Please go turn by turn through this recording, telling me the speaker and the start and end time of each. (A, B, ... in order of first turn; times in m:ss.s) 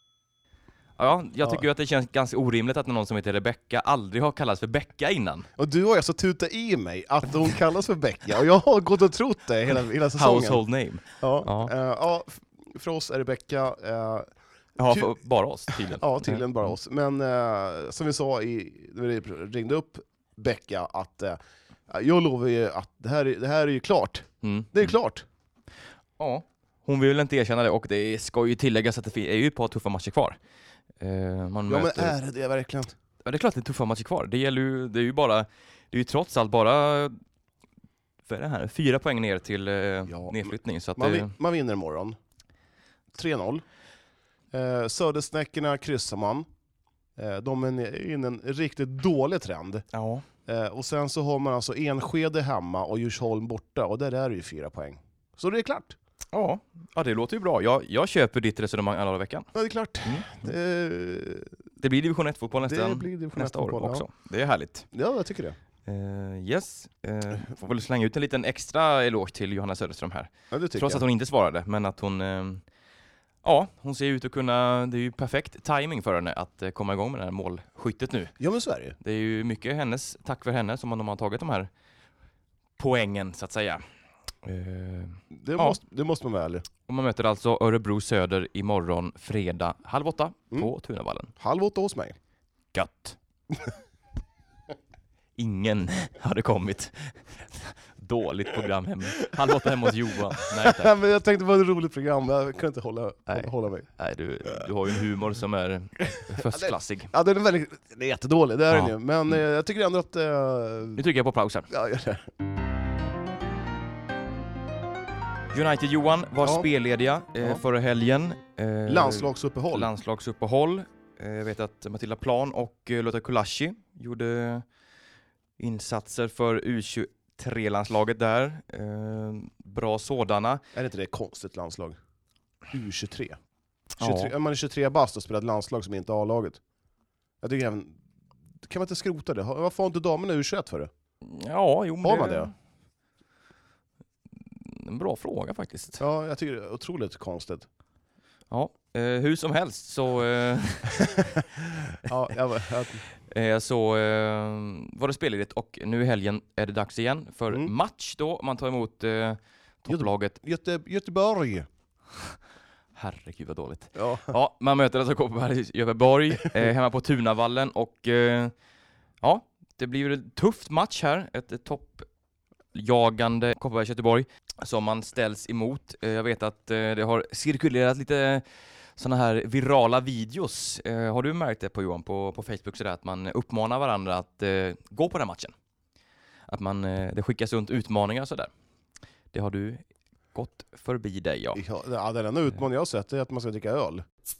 0:01.0-0:05.5 A
0:05.6-0:10.6 B
0:10.2-0:11.7 A
0:11.2-0:14.3 B
0:14.8-0:16.4 A
0:14.9-0:15.2 B
0:15.7-0:21.4 B
0:21.9-0:25.2 B
0:24.4-0:24.9 A
0:26.2-0:30.4 A
0:31.0-0:32.1 A
0:31.7-0:32.9 B
0:33.2-0:37.2 A
0:38.2-0:41.3 A
0:40.0-0:42.2 B
0:43.1-0:43.6 B
0:44.5-0:46.5 B
0:47.2-0:49.8 B
0:49.9-0:50.2 A
0:50.4-0:56.0 B
0:56.3-0:59.5 A
0:59.5-1:01.6 B
1:00.0-1:00.5 A
1:01.8-1:04.9 A
1:02.6-1:04.0 B
1:04.9-1:05.6 B
1:05.8-1:12.6 A
1:10.5-1:11.0 B
1:13.4-1:18.4 A
1:18.4-1:19.0 B
1:19.0-1:21.7 A
1:22.8-1:23.8 A
1:24.4-1:25.8 A
1:25.3-1:26.6 B
1:26.8-1:31.3 A
1:31.4-1:32.2 B
1:32.7-1:33.2 A
1:35.4-1:40.9 A
1:39.6-1:39.9 B
1:40.4-1:43.9 B
1:43.3-1:47.1 A
1:46.3-1:51.0 B
1:51.0-1:51.7 A
1:51.7-1:52.3 B
1:55.5-2:04.6 A
1:56.4-1:56.7 B
1:58.9-1:59.9 B
2:05.6-2:10.6 A
2:10.7-2:12.0 B
2:12.7-2:13.4 B
2:14.0-2:16.6 B
2:14.0-2:14.3 A
2:17.4-2:18.0 B
2:18.6-2:20.9 B
2:21.2-2:22.5 A
2:22.0-2:22.5 B
2:24.4-2:26.0 A
2:26.0-2:27.7 B
2:28.5-2:31.2 A
2:31.1-2:31.4 B
2:32.0-2:33.0 B
2:33.2-2:40.4 A
2:39.9-2:41.7 B
2:42.9-2:48.5 A
2:43.9-2:44.3 B
2:49.2-2:52.1 A
2:52.7-2:58.4 A
2:59.0-3:05.5 A
3:06.5-3:08.5 A
3:09.3-3:11.6 A
3:11.5-3:14.0 B